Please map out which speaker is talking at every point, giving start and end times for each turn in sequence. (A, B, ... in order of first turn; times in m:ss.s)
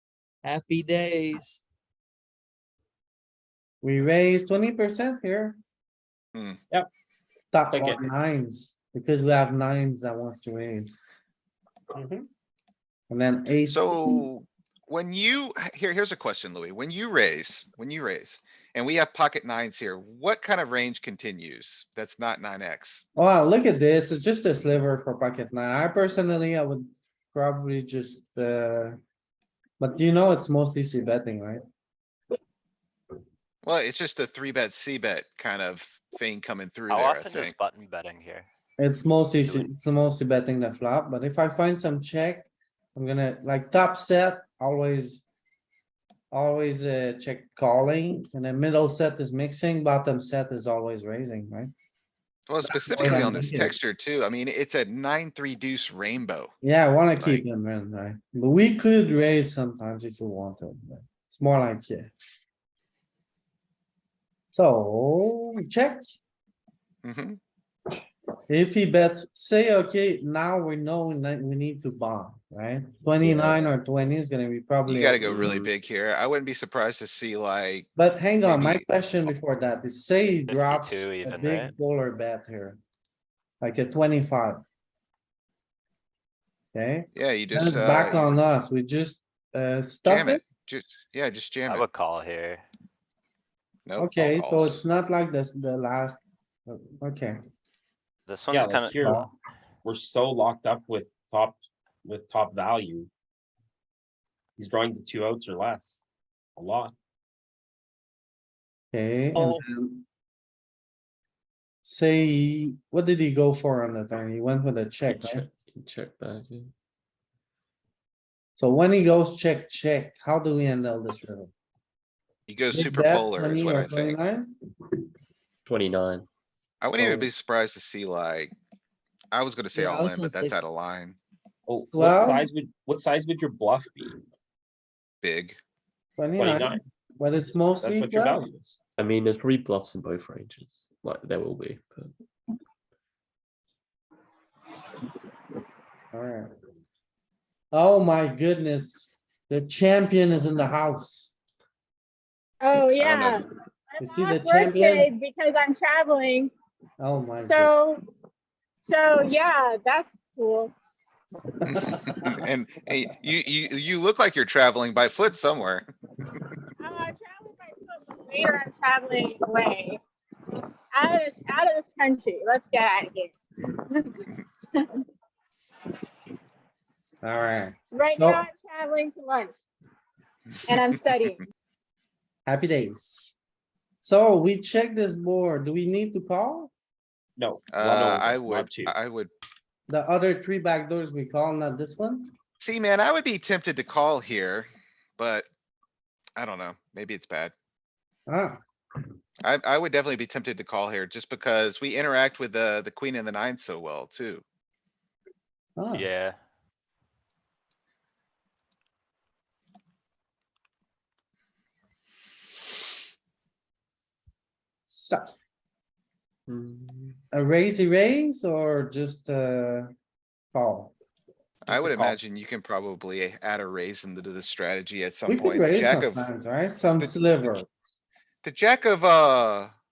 0:00.4-0:01.6 A
0:03.8-0:05.6 B
0:06.3-0:06.6 C
0:07.5-0:11.0 B
0:07.7-0:08.0 D
0:11.9-0:12.3 D
0:13.1-0:14.2 B
0:13.7-0:23.0 C
0:23.1-0:29.0 B
0:29.8-0:31.6 B
0:33.6-0:37.6 C
0:36.9-0:38.5 E
0:38.8-0:45.2 B
0:46.3-0:51.7 B
0:52.5-0:56.5 C
0:52.6-0:53.7 B
0:56.6-1:02.1 B
0:57.2-0:57.4 C
1:04.5-1:06.1 B
1:07.0-1:07.4 C
1:08.5-1:15.5 B
1:13.2-1:13.6 F
1:14.9-1:18.8 C
1:15.4-1:15.7 F
1:18.0-1:22.8 B
1:20.5-1:21.7 E
1:23.6-1:24.6 B
1:26.7-1:30.4 B
1:27.1-1:28.4 C
1:30.0-1:31.8 C
1:31.6-1:32.6 E
1:33.8-1:34.8 C
1:34.0-1:37.4 B
1:38.3-1:39.3 E
1:38.5-1:39.3 D
1:39.0-1:39.3 B
1:39.8-1:43.1 D
1:44.6-1:46.0 D
1:46.6-1:46.9 D
1:48.9-1:50.0 B
1:49.3-1:49.6 F
1:51.8-1:55.5 B
1:55.0-1:56.7 F
1:58.6-2:01.5 B
2:02.5-2:04.2 C
2:02.7-2:04.5 B
2:05.6-2:06.3 F
2:06.8-2:08.5 C
2:09.3-2:11.2 C
2:09.7-2:10.6 A
2:11.6-2:14.2 D
2:11.8-2:12.5 B
2:15.2-2:15.6 C
2:16.2-2:18.4 B
2:16.4-2:16.8 D
2:17.8-2:18.8 D
2:19.0-2:22.1 F
2:26.1-2:26.5 B
2:27.7-2:31.3 B
2:32.6-2:36.5 G
2:33.0-2:33.4 C
2:34.0-2:35.1 B
2:37.0-2:37.7 B
2:37.4-2:38.0 G
2:38.8-2:40.7 G
2:41.7-2:42.1 B
2:41.7-2:45.9 C
2:46.8-2:50.0 G
2:50.5-2:55.0 G
2:57.2-2:58.4 B
2:57.9-2:59.6 G
3:00.6-3:01.5 G
3:02.4-3:03.3 B
3:04.0-3:06.7 B
3:07.4-3:09.0 D
3:07.7-3:09.3 C
3:09.9-3:12.3 B
3:12.6-3:15.4 C
3:16.4-3:17.5 C
3:18.3-3:18.6 B
3:19.4-3:24.4 C
3:25.8-3:26.1 B
3:25.9-3:26.4 E
3:34.9-3:35.2 B
3:36.5-3:37.2 F
3:37.3-3:39.9 B
3:40.5-3:40.9 B
3:41.6-3:46.2 C
3:41.7-3:42.2 D
3:45.3-3:47.7 B
3:47.0-3:47.5 C
3:48.4-3:49.7 C